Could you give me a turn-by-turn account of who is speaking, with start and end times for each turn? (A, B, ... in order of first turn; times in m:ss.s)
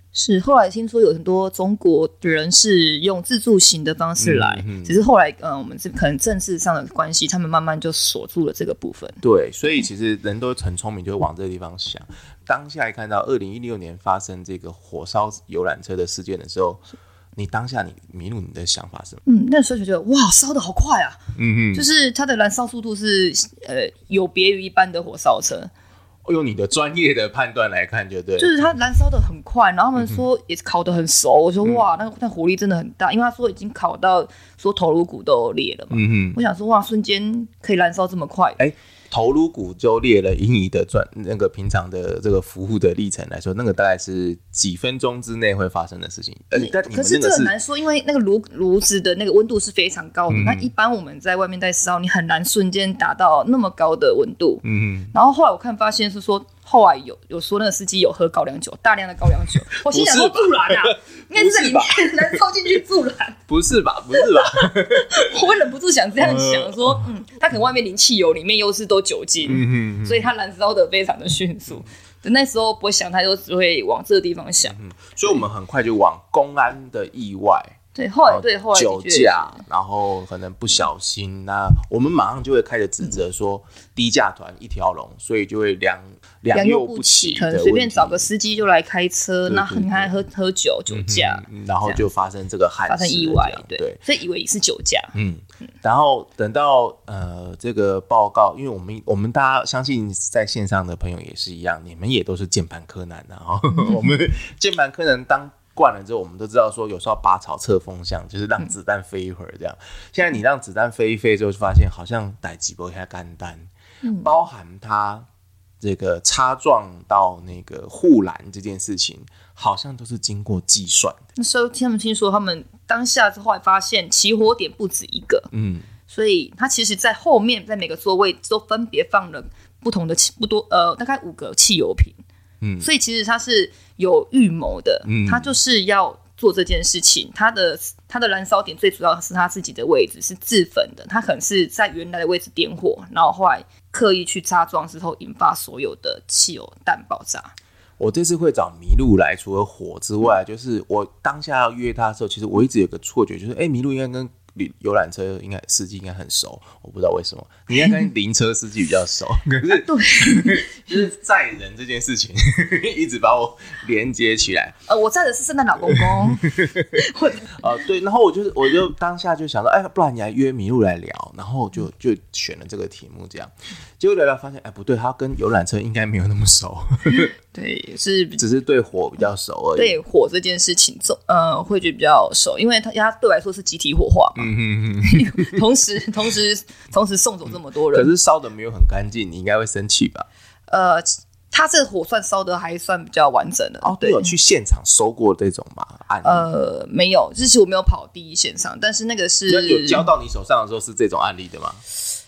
0:00.1-0:09.2 A
0:04.2-0:05.0 B
0:09.2-0:16.8 B
0:17.4-0:19.2 B
0:19.2-0:21.2 A
0:21.4-0:21.9 B
0:21.7-0:25.7 A
0:26.2-0:28.6 B
0:28.4-0:38.6 A
0:35.9-0:36.4 B
0:38.6-0:47.5 B
0:46.5-1:03.4 A
0:50.3-0:50.7 B
0:54.6-0:55.1 B
0:59.7-1:02.4 B
1:03.5-1:05.3 B
1:04.2-1:15.4 A
1:06.2-1:07.0 B
1:09.4-1:10.3 B
1:14.6-1:28.3 B
1:17.9-1:19.6 A
1:26.5-1:32.1 A
1:29.4-1:30.2 B
1:30.9-1:34.0 B
1:32.9-1:35.1 A
1:35.1-1:53.7 B
1:43.7-1:44.1 A
1:54.0-1:54.3 A
1:54.2-1:55.3 B
1:55.8-2:01.2 B
2:01.4-2:05.5 A
2:05.5-2:05.9 B
2:06.1-2:12.2 A
2:12.6-2:12.9 B
2:12.8-2:27.5 A
2:15.0-2:15.5 B
2:28.0-2:44.8 B
2:37.7-2:38.1 A
2:39.7-2:40.7 A
2:44.9-2:47.7 A
2:45.8-2:46.9 B
2:47.5-2:57.3 B
2:57.2-2:58.4 A
2:58.4-3:00.0 B
2:59.8-3:04.5 A
3:04.4-3:05.6 B
3:05.0-3:08.1 A
3:07.9-3:10.3 B
3:10.7-3:14.3 A
3:13.8-3:16.5 B
3:16.2-3:20.1 A
3:19.5-3:21.8 B